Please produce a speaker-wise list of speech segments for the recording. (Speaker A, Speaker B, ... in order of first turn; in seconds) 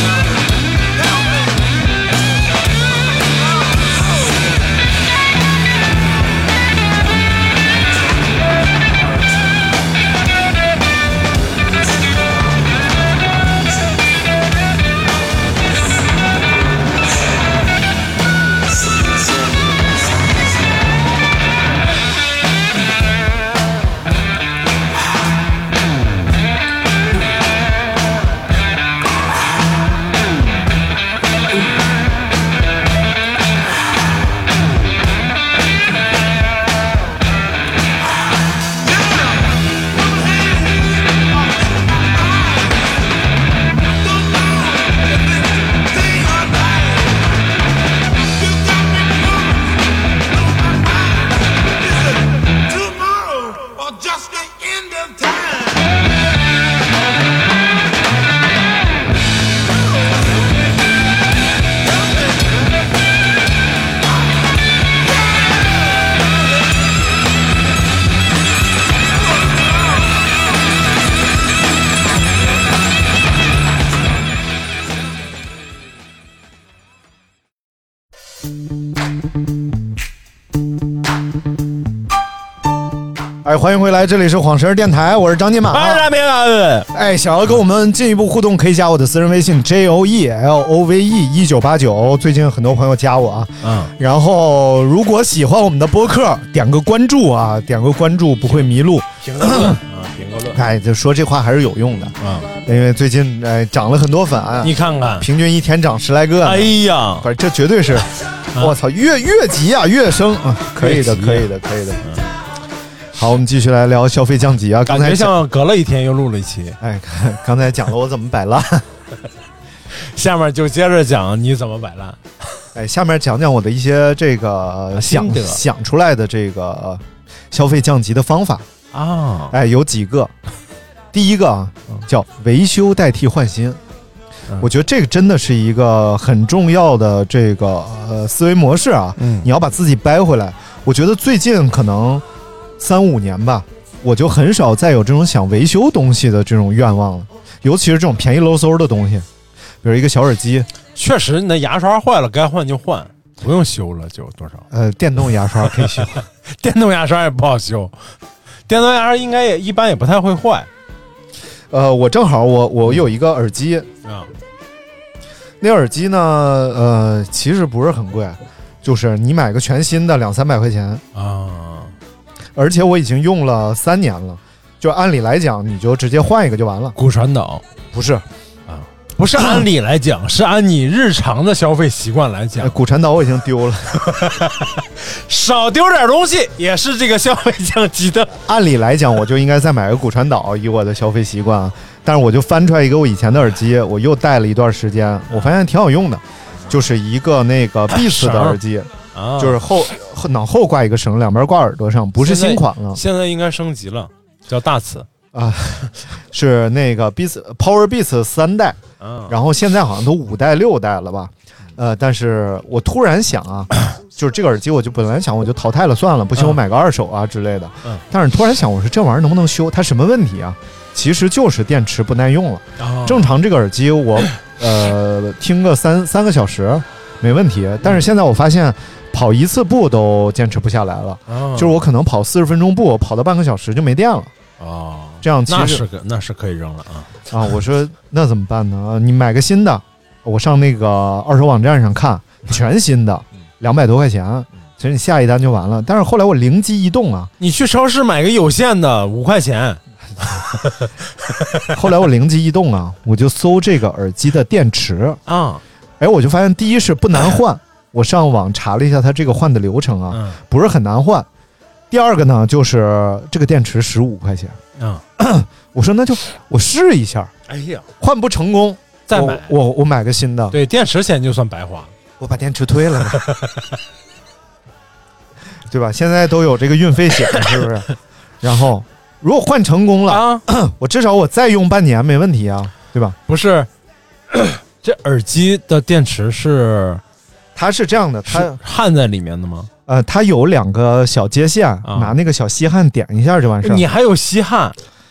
Speaker A: 0.9-1.7, 38.9-42.9, 44.0-47.3, 48.4-55.9, 61.9-62.4
Speaker B: 83.4-86.1, 86.9-99.8, 100.5-112.0, 113.2-115.4, 116.8-118.9, 122.7-128.7, 129.5-130.3, 131.1-133.8, 134.6-142.2, 142.8-149.3, 149.8-150.7, 154.7-156.2, 161.7-163.9, 165.6-171.0, 172.5-176.9, 177.9-178.2, 182.6-184.0, 188.4-203.0, 205.3-234.3, 235.2-235.8, 237.3-247.3, 251.7-255.2, 256.0-261.3, 261.9-264.6, 265.2-267.3, 268.0-270.6, 272.2-273.3, 275.7-277.9, 278.4-283.2, 287.5-288.6, 289.9-293.9
Speaker C: 85.7-86.9, 93.6-93.9, 99.2-100.6, 102.2-102.5, 104.6-105.3, 106.4-107.3, 110.8-111.5, 112.0-112.3, 114.8-116.8, 120.0-122.2, 124.9-125.6, 128.9-129.6, 139.2-139.5, 150.9-154.7, 155.7-157.9, 158.7-160.7, 171.1-171.9, 176.9-177.6, 178.7-182.8, 183.9-188.4, 195.3-195.6, 197.9-198.6, 199.1-199.6, 202.2-205.1, 209.0-209.3, 222.8-223.3, 231.3-231.8, 234.6-237.1, 247.4-250.9, 255.3-255.6, 260.1-260.4, 264.8-265.0, 267.5-267.9, 269.1-269.6, 270.5-271.9, 273.1-273.7, 280.1-280.4, 283.3-283.7, 284.3-287.0, 288.3-289.7, 291.8-292.2, 293.6-294.8